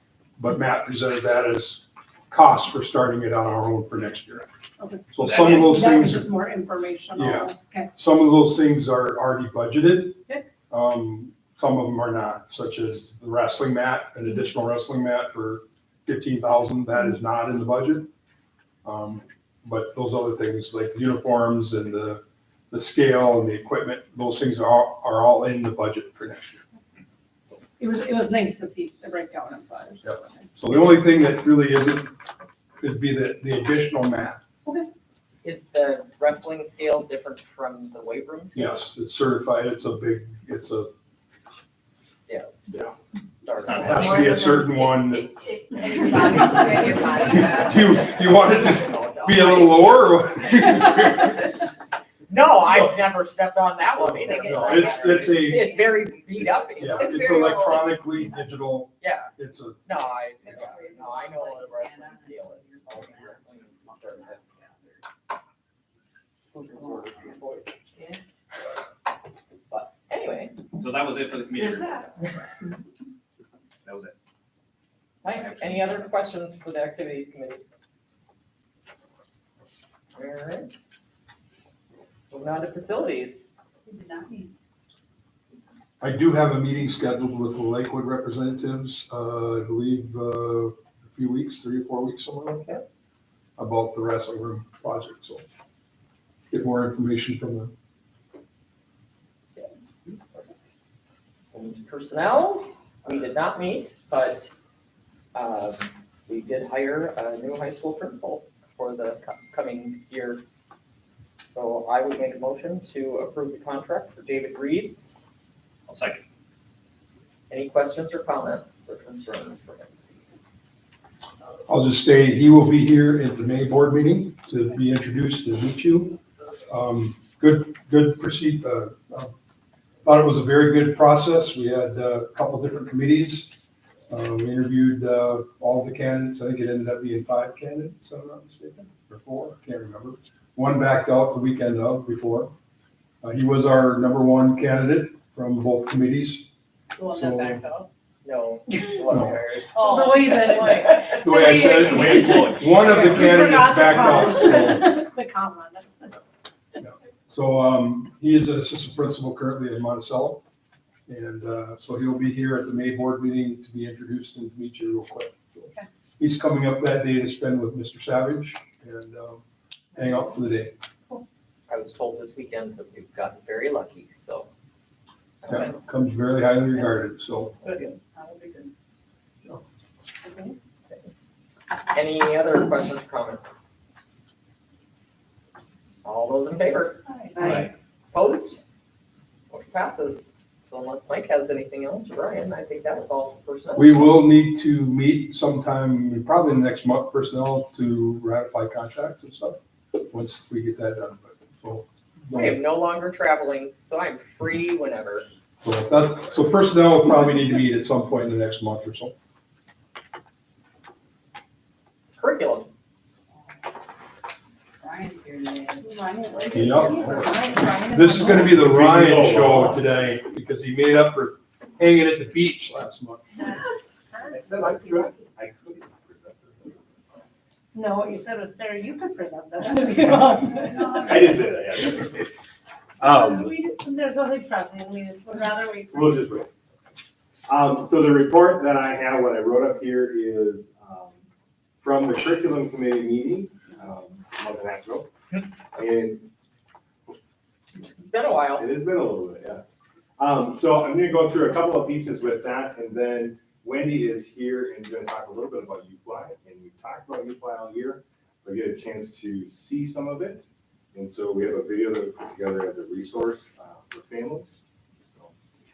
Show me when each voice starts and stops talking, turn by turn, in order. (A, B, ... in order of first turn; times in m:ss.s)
0:00.4-0:04.5 A
0:04.8-0:08.1 B
0:05.1-0:06.3 A
0:05.2-0:05.7 C
0:07.1-0:10.2 A
0:10.7-0:18.1 A
0:18.8-0:26.6 A
0:27.8-0:30.5 B
0:30.0-0:32.1 A
0:32.8-0:34.4 A
0:35.4-0:38.9 D
0:38.5-0:40.9 A
0:42.3-0:44.3 D
0:43.6-0:48.1 C
0:43.8-0:46.4 A
0:46.0-0:46.9 E
0:47.2-0:51.4 A
0:47.2-0:50.1 D
0:52.3-0:57.9 D
0:54.0-0:56.0 A
0:54.2-0:55.2 C
0:56.5-0:59.8 A
0:56.8-0:58.0 C
0:59.0-0:59.3 D
0:59.8-1:04.4 D
1:00.6-1:05.0 C
1:06.5-1:07.8 D
1:09.7-1:10.6 D
1:10.8-1:12.4 C
1:13.8-1:14.1 C
1:15.2-1:17.6 D
1:15.2-1:16.0 C
1:20.1-1:20.7 D
1:22.3-1:23.5 D
1:26.0-1:32.6 A
1:32.5-1:32.8 D
1:33.6-1:35.4 A
1:36.5-1:37.7 A
1:39.5-1:40.5 D
1:41.5-1:44.5 D
1:45.3-1:50.4 D
1:51.4-1:55.2 D
1:55.9-1:56.2 C
1:57.5-1:59.9 D
2:01.7-2:09.3 A
2:10.0-2:13.5 A
2:14.1-2:22.5 A
2:23.2-2:26.4 A
2:27.0-2:27.8 E
2:27.0-2:27.6 A
2:28.2-2:30.4 D
2:29.1-2:29.4 A
2:29.8-2:30.7 E
2:29.8-2:36.2 B
2:31.1-2:35.0 A
2:31.5-2:33.7 C
2:36.8-2:40.4 A
2:41.1-2:49.4 A
2:49.9-2:50.7 A
2:51.7-2:54.5 D
2:55.4-2:55.8 D
2:55.5-2:57.6 A
3:01.9-3:03.5 D
3:06.0-3:07.0 D
3:07.3-3:07.7 B
3:07.4-3:07.7 C
3:08.1-3:08.6 D
3:09.5-3:14.3 D
3:13.7-3:22.6 A
3:22.3-3:25.3 D
3:25.6-3:29.1 A
3:32.1-3:32.7 D
3:34.8-3:35.9 E
3:35.8-3:38.6 B
3:36.5-3:43.3 A
3:38.5-3:39.8 F
3:43.4-3:44.3 B
3:44.3-3:47.2 F
3:47.7-3:51.3 B
3:50.4-3:52.3 F
3:53.0-3:53.6 F
3:53.0-3:56.2 B
3:55.9-3:56.5 F
3:57.5-4:01.2 F
4:01.8-4:05.1 F
4:05.7-4:06.3 F
4:07.7-4:08.7 D
4:08.6-4:09.6 F
4:10.2-4:25.3 F